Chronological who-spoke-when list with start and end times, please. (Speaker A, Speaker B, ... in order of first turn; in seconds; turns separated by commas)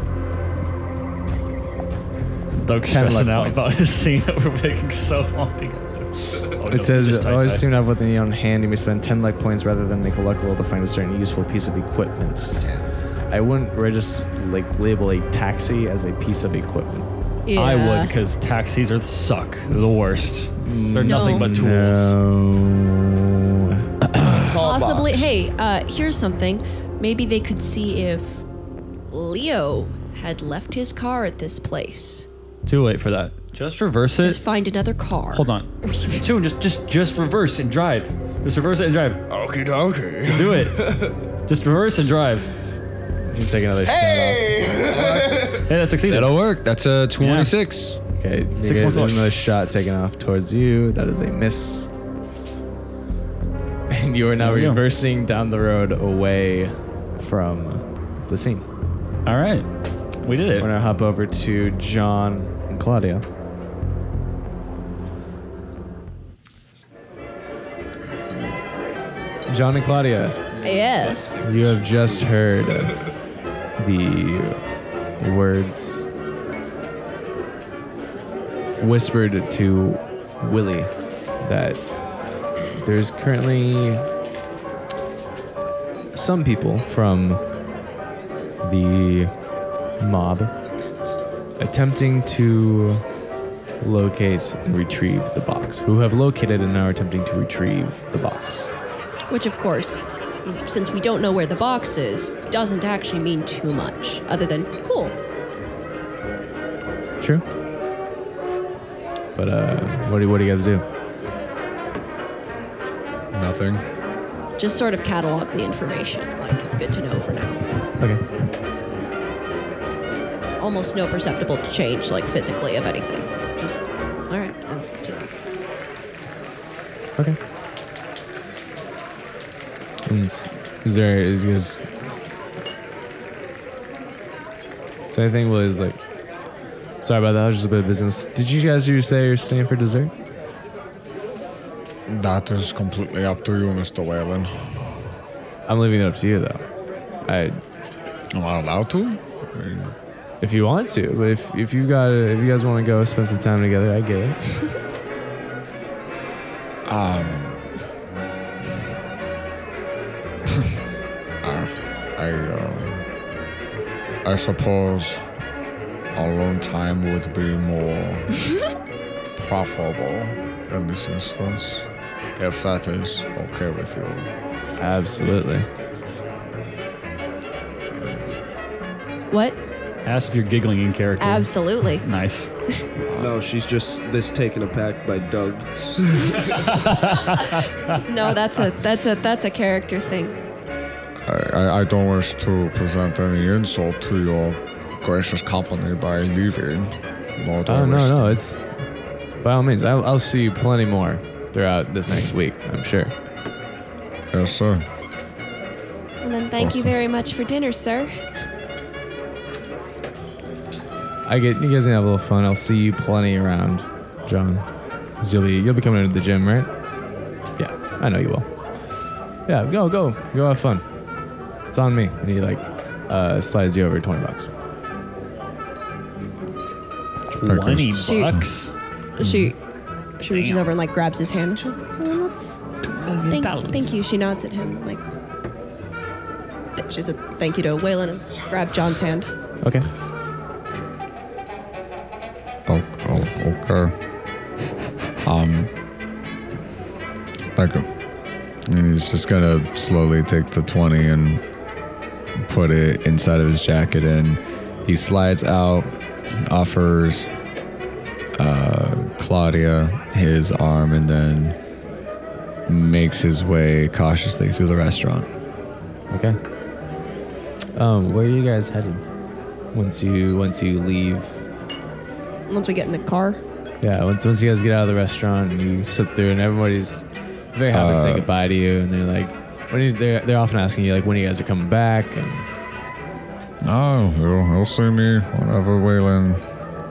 Speaker A: 2.6-7.7, Speaker B: 2.9-3.7, Speaker B: 6.6-12.6, Speaker C: 12.6-12.8, Speaker B: 13.3-17.1, Speaker D: 17.4-18.1, Speaker A: 17.5-22.2, Speaker B: 20.6-23.9, Speaker D: 21.0-21.6, Speaker C: 24.4-25.3, Speaker D: 24.5-28.4, Speaker D: 29.1-32.3, Speaker A: 32.6-34.4, Speaker D: 34.2-36.2, Speaker A: 35.3-39.2, Speaker C: 39.3-41.2, Speaker A: 40.2-42.5, Speaker B: 43.3-45.3, Speaker C: 43.8-45.7, Speaker A: 45.6-46.4, Speaker E: 46.0-48.0, Speaker A: 47.2-47.5, Speaker B: 48.2-51.9, Speaker A: 48.6-49.2, Speaker B: 53.9-58.6, Speaker A: 54.4-54.8, Speaker A: 59.2-59.7, Speaker A: 60.2-60.7, Speaker B: 60.6-63.2, Speaker B: 69.5-70.4, Speaker D: 70.6-71.4, Speaker C: 71.1-71.4, Speaker B: 71.4-73.0, Speaker B: 73.8-74.6, Speaker B: 75.2-76.1, Speaker B: 78.6-80.9, Speaker B: 81.4-81.8, Speaker B: 82.8-84.1, Speaker B: 86.1-87.4, Speaker B: 88.6-89.3, Speaker B: 90.0-90.5, Speaker B: 91.6-93.0, Speaker B: 93.8-98.7, Speaker D: 99.3-105.2, Speaker B: 109.3-110.8, Speaker E: 113.3-113.8, Speaker D: 114.6-117.6, Speaker D: 120.6-125.3, Speaker B: 130.1-131.8, Speaker B: 135.1-136.0, Speaker B: 137.0-140.1, Speaker E: 142.1-144.9, Speaker B: 145.7-146.6, Speaker B: 147.2-147.6, Speaker E: 148.3-149.9, Speaker B: 150.4-154.7, Speaker E: 156.8-157.7, Speaker E: 161.4-163.1, Speaker E: 164.2-165.2, Speaker E: 166.1-168.3, Speaker E: 169.3-174.3, Speaker B: 174.8-175.7, Speaker D: 179.3-179.6, Speaker A: 180.0-182.5, Speaker D: 181.2-182.0, Speaker E: 183.1-183.4, Speaker C: 183.2-186.8, Speaker A: 186.5-188.0, Speaker D: 188.0-190.4, Speaker E: 191.2-198.4, Speaker B: 197.7-198.7, Speaker B: 199.4-203.1, Speaker E: 204.3-204.8, Speaker D: 206.2-208.2, Speaker B: 211.2-214.7, Speaker B: 215.2-216.7, Speaker B: 217.6-218.5, Speaker B: 219.5-220.8, Speaker B: 221.7-224.5, Speaker A: 227.3-228.7, Speaker E: 227.4-228.5, Speaker D: 228.0-228.4, Speaker D: 229.2-229.6, Speaker D: 230.2-232.3, Speaker A: 232.9-233.9, Speaker D: 233.2-235.0, Speaker D: 236.8-239.3, Speaker B: 239.6-239.9, Speaker E: 242.7-243.9, Speaker E: 245.2-245.7, Speaker E: 247.5-247.9, Speaker E: 248.7-251.4, Speaker E: 252.4-257.3, Speaker E: 258.4-261.6, Speaker E: 262.7-265.3, Speaker B: 266.1-266.4, Speaker B: 267.7-269.0, Speaker B: 269.7-271.4, Speaker D: 272.5-273.4, Speaker B: 273.8-282.5, Speaker E: 277.7-278.3, Speaker E: 283.6-286.4